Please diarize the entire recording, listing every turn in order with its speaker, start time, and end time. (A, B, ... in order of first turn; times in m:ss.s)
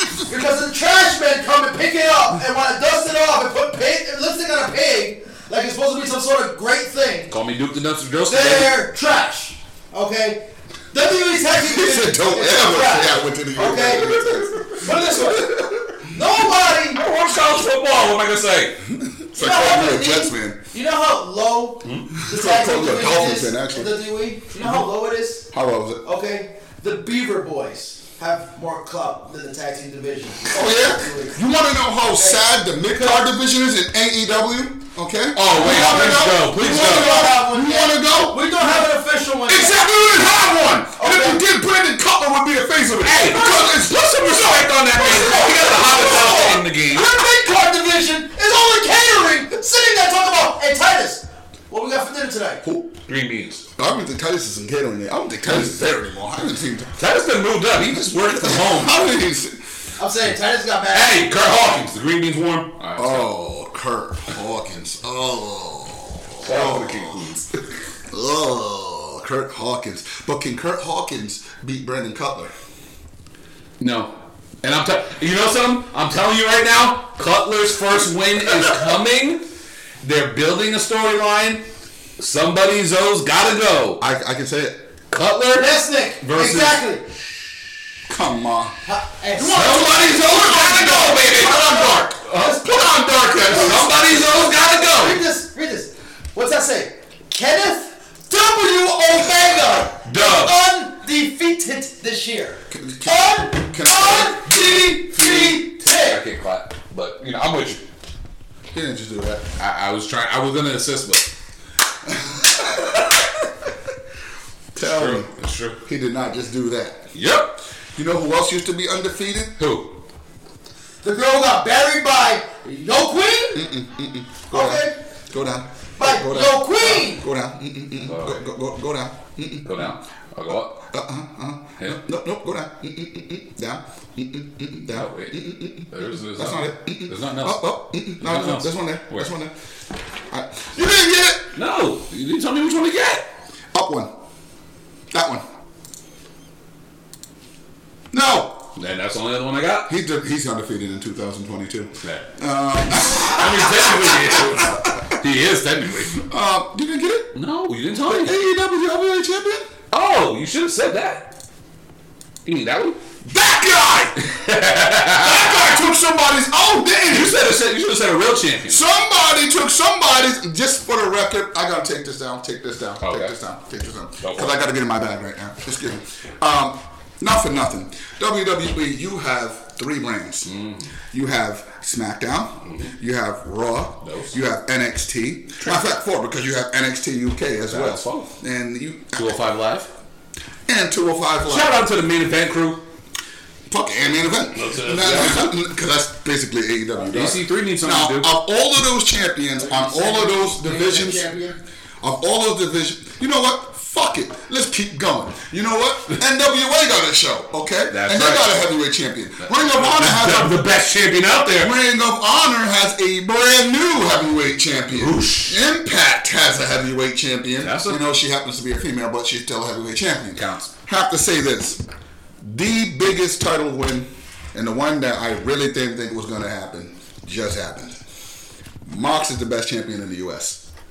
0:00.2-0:07.3 A
0:07.3-0:08.8 B
0:08.2-0:17.0 A
0:11.6-0:16.0 C
0:13.7-0:15.5 B
0:16.9-0:18.8 B
0:18.8-0:20.6 C
0:19.4-0:25.5 A
0:21.8-0:22.1 B
0:22.2-0:24.0 C
0:24.6-0:24.9 C
0:25.5-0:26.0 C
0:26.0-0:31.4 A
0:30.5-0:38.8 C
0:32.1-0:33.2 A
0:35.4-0:37.3 B
0:35.6-0:39.8 A
0:39.5-0:46.5 C
0:41.0-0:41.4 A
0:43.0-0:47.1 B
0:45.0-0:52.6 A
0:52.6-0:53.0 C
0:53.1-0:53.6 B
0:53.8-0:57.0 C
0:55.5-0:55.7 B
0:57.0-0:59.0 B
0:58.4-0:59.6 C
1:00.0-1:01.3 A
1:00.9-1:03.3 B
1:03.0-1:07.3 C
1:06.4-1:07.5 B
1:08.1-1:12.5 C
1:13.8-1:19.4 B
1:20.0-1:21.6 B
1:22.2-1:24.0 B
1:24.0-1:24.9 C
1:25.1-1:26.8 B
1:25.6-1:27.0 A
1:28.1-1:28.8 C
1:28.8-1:30.1 A
1:29.4-1:34.3 C
1:29.4-1:32.7 B
1:33.5-1:33.7 A
1:33.5-1:35.2 B
1:34.8-1:46.2 A
1:40.0-1:40.6 B
1:42.7-1:45.5 C
1:45.2-1:47.8 B
1:48.7-1:49.5 C
1:49.6-1:51.3 B
1:52.1-1:53.1 C
1:54.8-1:55.3 C
1:54.8-1:55.8 B
1:55.8-1:57.1 C
1:57.1-1:57.6 B
1:58.0-1:59.6 C
1:59.6-2:00.0 B
2:01.0-2:03.6 A
2:03.5-2:09.9 C
2:04.5-2:05.0 A
2:06.0-2:07.2 A
2:08.1-2:08.4 B
2:09.6-2:10.8 B
2:10.8-2:19.5 C
2:14.9-2:19.3 B
2:20.3-2:21.5 C
2:21.6-2:23.3 B
2:23.7-2:24.1 C
2:25.1-2:25.4 C
2:28.1-2:28.6 C
2:28.8-2:29.9 B
2:29.9-2:35.1 C
2:32.0-2:32.3 B
2:33.1-2:36.2 B
2:36.1-2:37.4 C
2:37.4-2:38.4 B
2:38.1-2:39.7 C
2:39.9-2:41.3 B
2:42.5-2:43.0 B
2:43.2-2:44.2 C
2:44.2-2:45.8 B
2:45.1-2:47.4 C
2:47.1-2:48.8 B
2:48.7-3:00.5 C
2:53.0-2:53.3 B
2:54.2-2:54.6 B
3:00.4-3:00.9 B
3:01.1-3:09.4 C
3:04.0-3:04.4 B
3:07.7-3:08.3 B
3:09.2-3:09.9 B
3:10.7-3:11.8 C
3:11.5-3:12.8 B
3:13.7-3:21.3 C
3:14.5-3:15.5 B
3:17.1-3:18.3 B
3:19.6-3:21.6 A
3:22.0-3:30.6 C
3:27.9-3:28.6 B
3:29.4-3:31.7 B
3:31.6-3:41.8 C
3:34.9-3:35.6 B
3:37.6-3:38.0 B
3:40.4-3:40.7 B
3:42.4-3:48.0 C
3:48.8-3:50.6 C